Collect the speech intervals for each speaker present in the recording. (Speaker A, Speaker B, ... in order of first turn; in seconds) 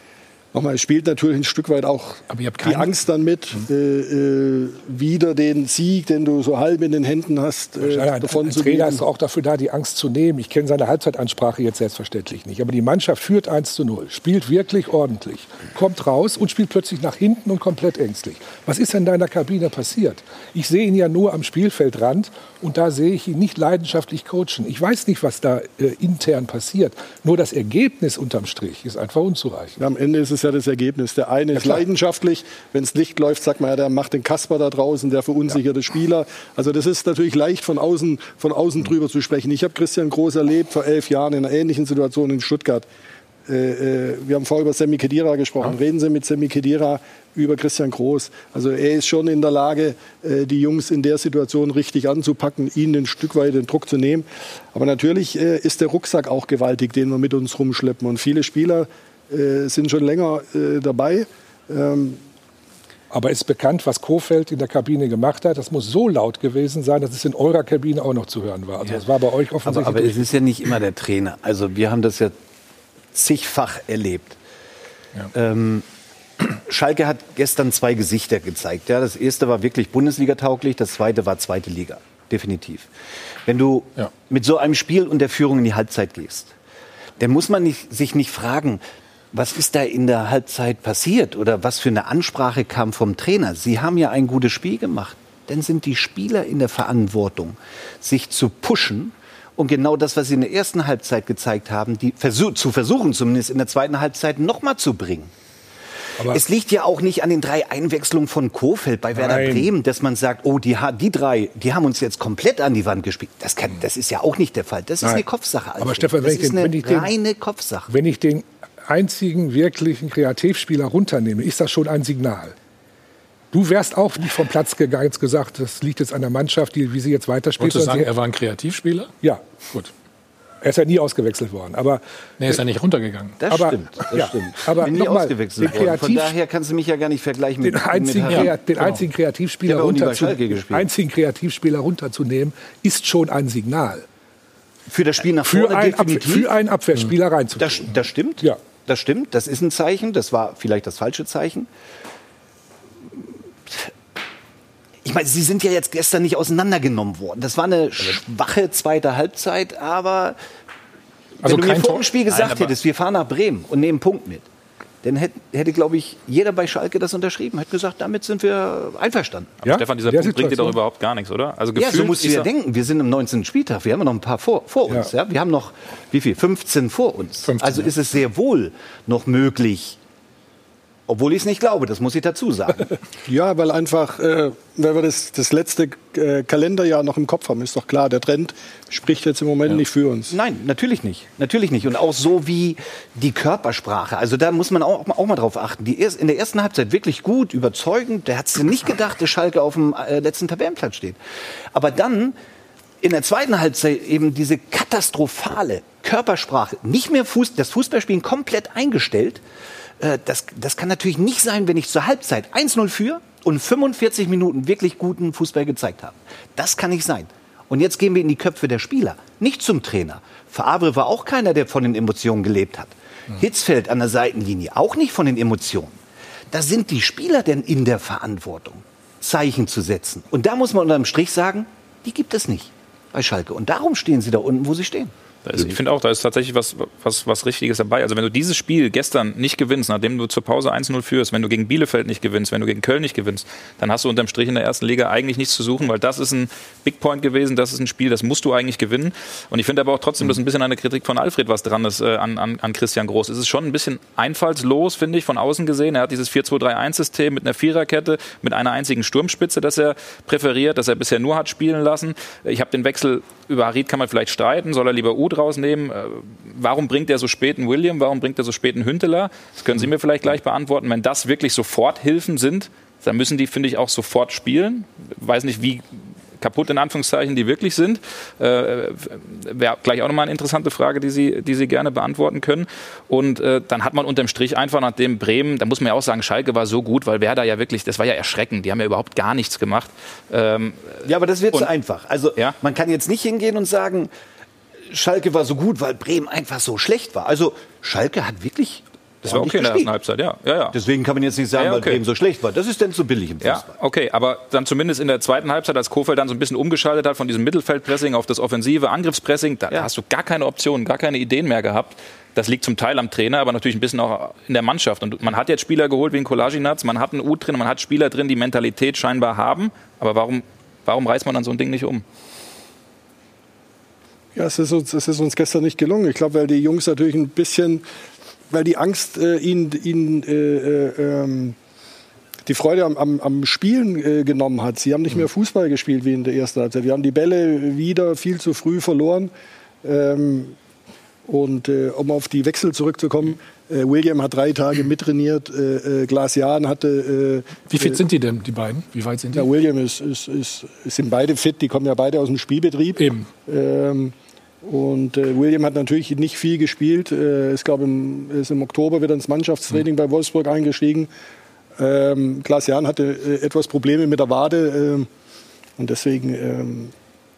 Speaker A: 0.5-9.0, 29.8-42.9, 43.5-62.2, 183.3-190.3, 324.4-327.8, 328.5-331.6, 332.5-339.3, 339.8-340.6, 341.3-348.0, 349.4-361.1, 361.8-365.1, 365.8-366.9
Speaker B: 2.3-2.9, 127.6-129.1, 132.4-133.4, 138.3-139.0, 161.4-162.1, 177.4-177.9, 347.7-349.5, 353.0-353.3
Speaker C: 7.8-29.8, 63.1-70.3, 106.2-106.4, 109.1-109.7, 115.8-117.1, 117.9-122.6, 123.5-128.1, 130.6-132.6, 133.5-136.4, 137.6-144.1, 145.4-148.6, 169.6-170.8
Speaker D: 69.7-72.4, 73.1-74.4, 75.3-75.8, 76.6-82.9, 83.5-86.5, 87.2-105.3, 106.2-117.9, 133.4-138.5, 139.7-140.9, 144.9-146.5, 147.6-151.7, 155.0-160.4, 161.4-164.5, 165.0-169.5, 171.8-180.0, 181.1-182.9, 189.8-201.2, 201.7-202.4, 203.0-209.4, 210.0-226.0, 226.5-235.1, 291.1-294.1, 294.9-299.9, 300.7-303.7
Speaker E: 162.3-162.7, 169.6-172.5, 235.4-275.9, 276.4-291.7, 299.2-300.8, 301.6-302.0, 303.4-322.1